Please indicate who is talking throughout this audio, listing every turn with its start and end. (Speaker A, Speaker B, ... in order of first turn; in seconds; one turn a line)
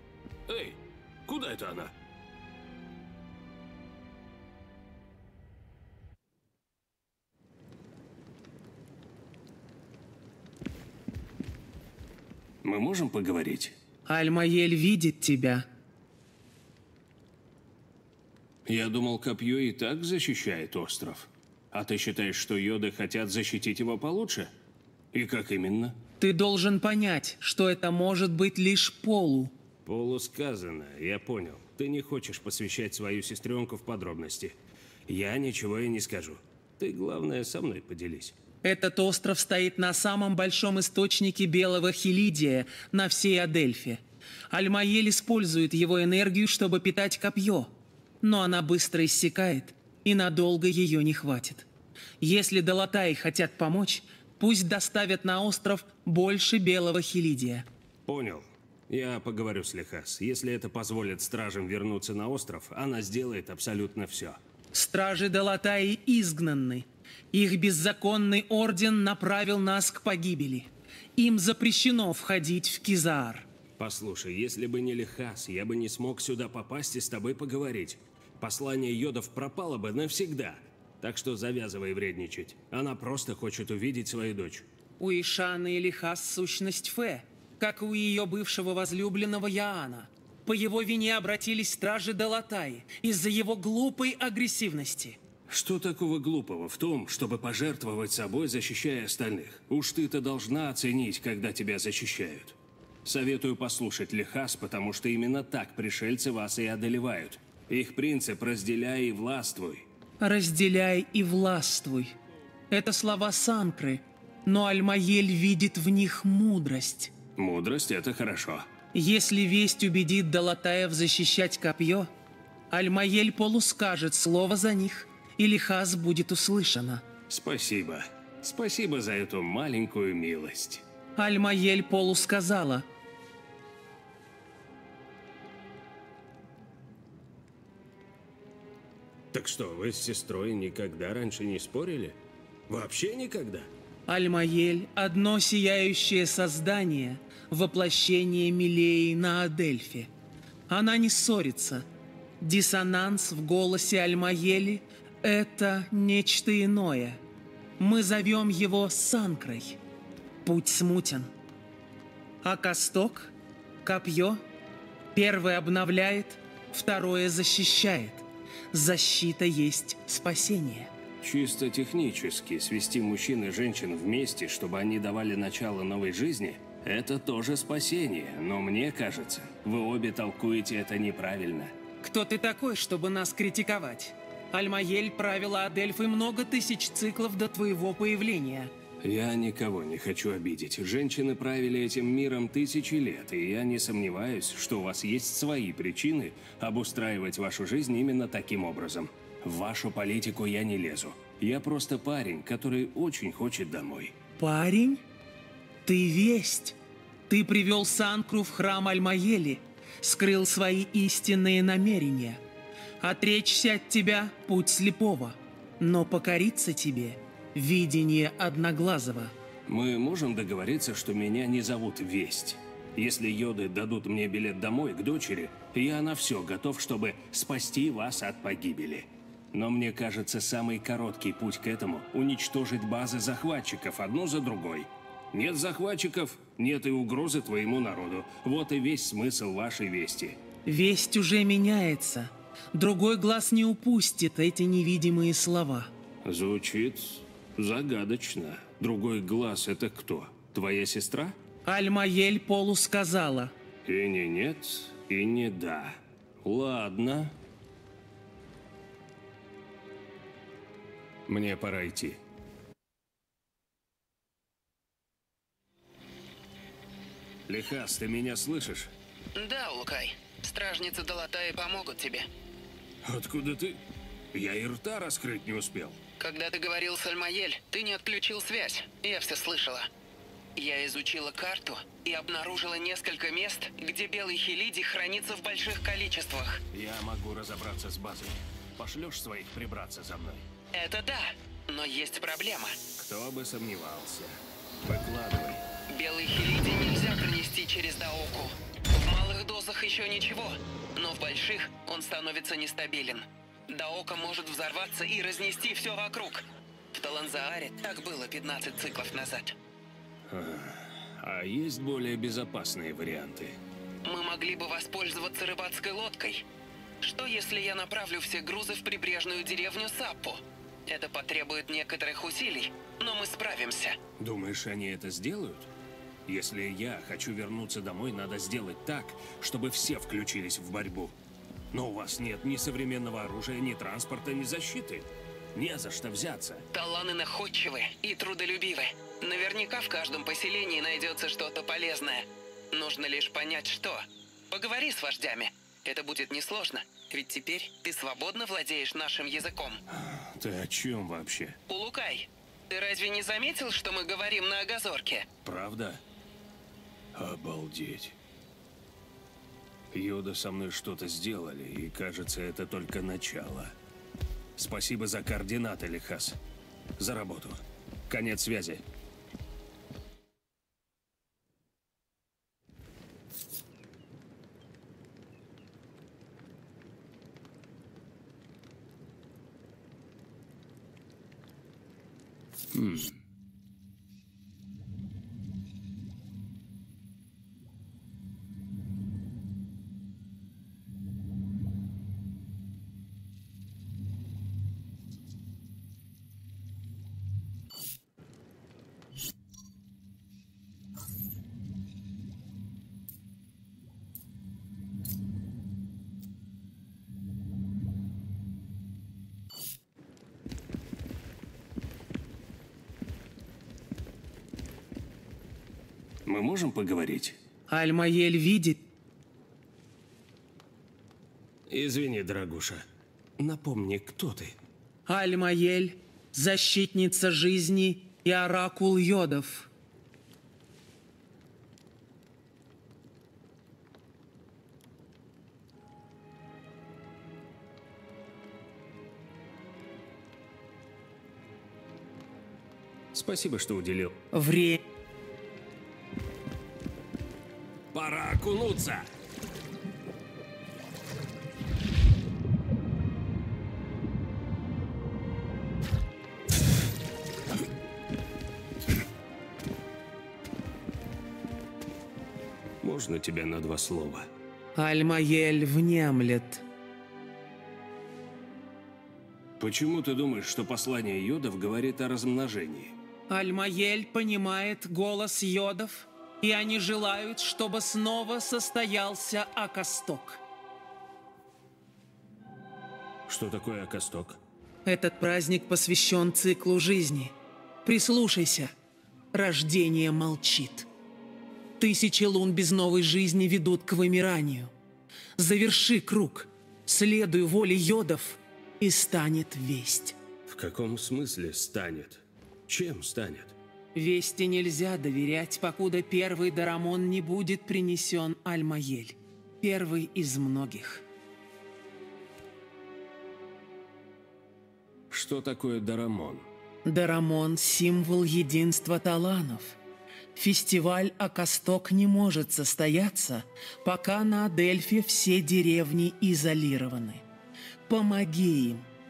Speaker A: 0.5-1.9
Speaker A: 12.6-13.8
Speaker B: 14.1-15.7
Speaker A: 18.7-24.5
Speaker A: 25.1-26.0
Speaker B: 26.2-29.5
Speaker A: 29.9-38.4
Speaker B: 38.6-51.7
Speaker B: 52.2-57.7
Speaker A: 58.1-64.4
Speaker B: 64.7-73.5
Speaker A: 73.8-84.7
Speaker B: 85.0-95.2
Speaker A: 95.5-109.9
Speaker B: 110.2-112.2
Speaker B: 112.7-117.1
Speaker A: 117.4-118.7
Speaker B: 118.9-122.1
Speaker B: 122.7-127.0
Speaker A: 127.3-130.8
Speaker B: 131.2-132.9
Speaker A: 139.3-142.2
Speaker A: 142.7-143.7
Speaker B: 144.1-150.1
Speaker B: 150.7-151.9
Speaker B: 152.4-157.2
Speaker B: 157.8-159.8
Speaker B: 160.4-161.3
Speaker B: 162.4-164.4
Speaker B: 165.1-170.9
Speaker A: 171.2-181.8
Speaker B: 182.0-188.7
Speaker A: 189.0-204.2
Speaker B: 204.4-205.0
Speaker B: 205.8-206.8
Speaker B: 207.3-212.4
Speaker B: 213.0-219.3
Speaker A: 219.7-240.4
Speaker B: 240.7-245.9
Speaker A: 246.2-251.4
Speaker B: 251.7-253.5
Speaker A: 253.8-257.4
Speaker A: 261.3-262.2
Speaker A: 267.5-268.9
Speaker C: 269.4-272.3
Speaker A: 273.0-273.8
Speaker A: 274.3-276.0
Speaker C: 276.2-279.9
Speaker C: 280.6-286.6
Speaker A: 286.7-290.5
Speaker C: 290.7-292.8
Speaker A: 293.0-295.6
Speaker C: 295.9-309.6
Speaker A: 310.3-313.6
Speaker C: 314.1-316.4
Speaker C: 317.0-324.0
Speaker A: 324.2-325.7
Speaker A: 326.3-331.1
Speaker A: 331.7-336.6
Speaker C: 336.7-349.8
Speaker A: 349.9-351.6
Speaker C: 351.7-355.3
Speaker A: 355.4-356.0
Speaker A: 357.1-358.2
Speaker A: 359.9-363.8
Speaker A: 364.6-366.4
Speaker A: 367.0-368.8
Speaker A: 382.7-383.2
Speaker A: 416.2-417.4
Speaker B: 417.7-418.8
Speaker A: 421.7-422.9
Speaker A: 423.4-424.6
Speaker B: 425.1-429.7
Speaker A: 443.1-444.2
Speaker B: 444.3-444.8
Speaker A: 447.9-449.1
Speaker A: 462.8-464.3
Speaker B: 464.8-466.6
Speaker A: 469.6-473.0
Speaker B: 473.3-480.4
Speaker A: 483.3-484.4
Speaker B: 484.9-487.3
Speaker B: 487.9-488.7
Speaker B: 489.3-490.9
Speaker B: 491.8-494.7
Speaker B: 495.4-500.2
Speaker A: 500.5-503.6
Speaker B: 503.9-511.0
Speaker A: 515.1-516.5
Speaker B: 516.9-519.8
Speaker B: 520.4-527.2
Speaker B: 527.9-528.9